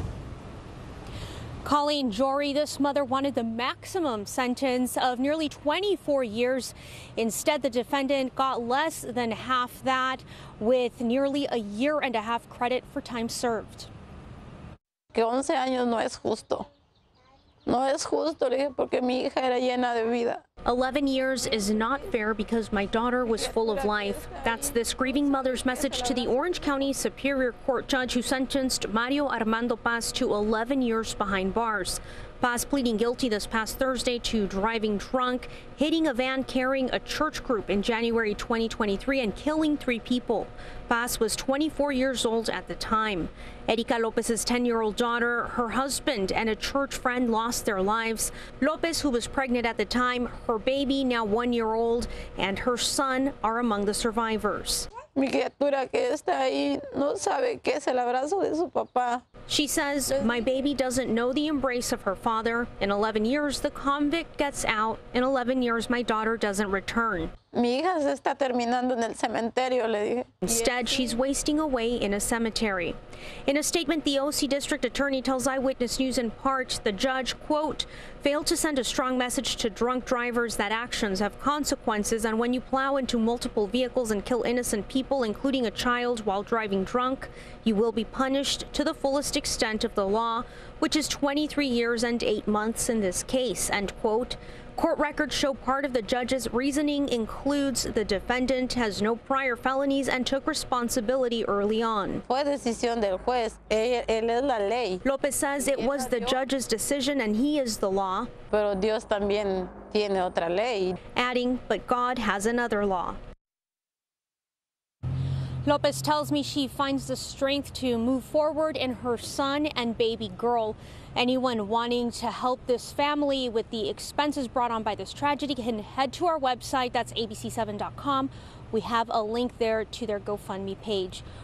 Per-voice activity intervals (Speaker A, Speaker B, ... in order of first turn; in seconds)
Speaker A: 1.6-13.9, 20.6-54.9, 59.5-67.3, 70.4-102.2, 105.0-108.3, 111.2-113.2, 115.7-131.2
Speaker B: 15.1-16.7, 17.7-20.4, 23.3-26.9, 55.1-59.2, 60.1-60.6, 67.5-71.2, 102.3-105.0, 105.6-106.4, 108.5-111.0